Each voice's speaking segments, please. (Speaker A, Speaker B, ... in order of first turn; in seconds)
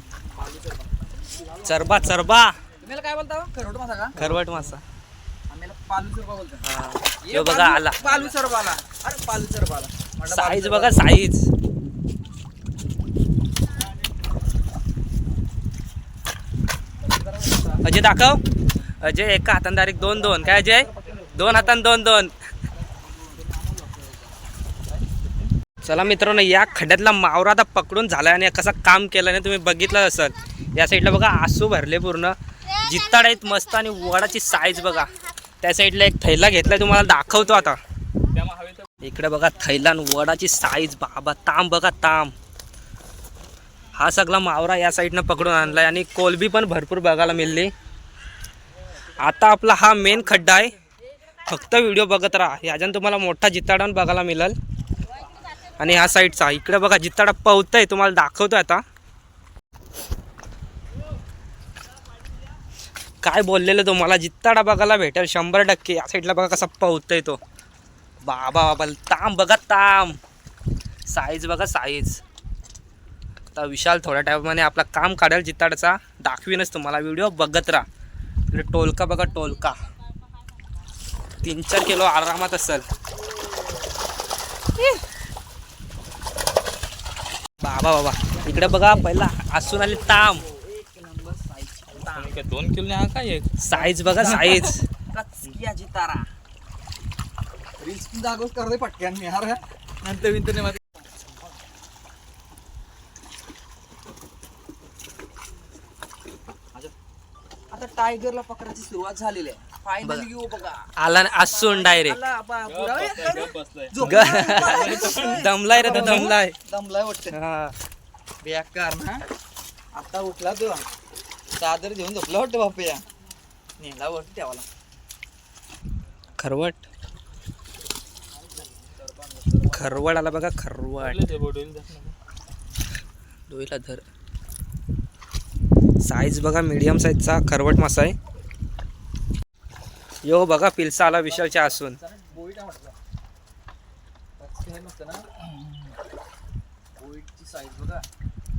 Speaker A: 0.3-2.2, 2.8-4.7, 5.5-6.6, 7.2-11.1, 17.0-17.8, 20.0-21.8, 22.7-24.2, 24.9-25.5, 88.2-92.4, 93.7-96.3, 97.8-101.0, 107.7-110.8, 111.4-117.3, 118.4-119.2, 119.9-120.8, 121.5-123.0, 123.8-124.7, 128.4-130.0, 141.0-142.9, 144.4-145.3, 147.0-148.1
Speaker B: 1.6-2.6, 4.2-4.8, 6.6-8.0, 10.3-11.4, 17.8-18.4, 19.0-22.3, 25.8-37.8, 39.0-42.3, 44.0-47.7, 49.1-50.7, 51.4-54.5, 55.8-58.8, 63.2-67.4, 68.2-70.2, 71.1-72.2, 73.5-77.8, 78.5-79.9, 81.4-82.8, 87.6-90.4, 93.6-94.8, 111.0-112.2, 114.0-116.5, 117.3-117.7, 126.4-126.8, 129.7-131.2, 133.5-134.0, 136.0-138.1, 140.2-142.0
Speaker C: 38.3-38.9, 91.9-93.6, 94.1-94.6, 112.6-115.5, 131.0-132.1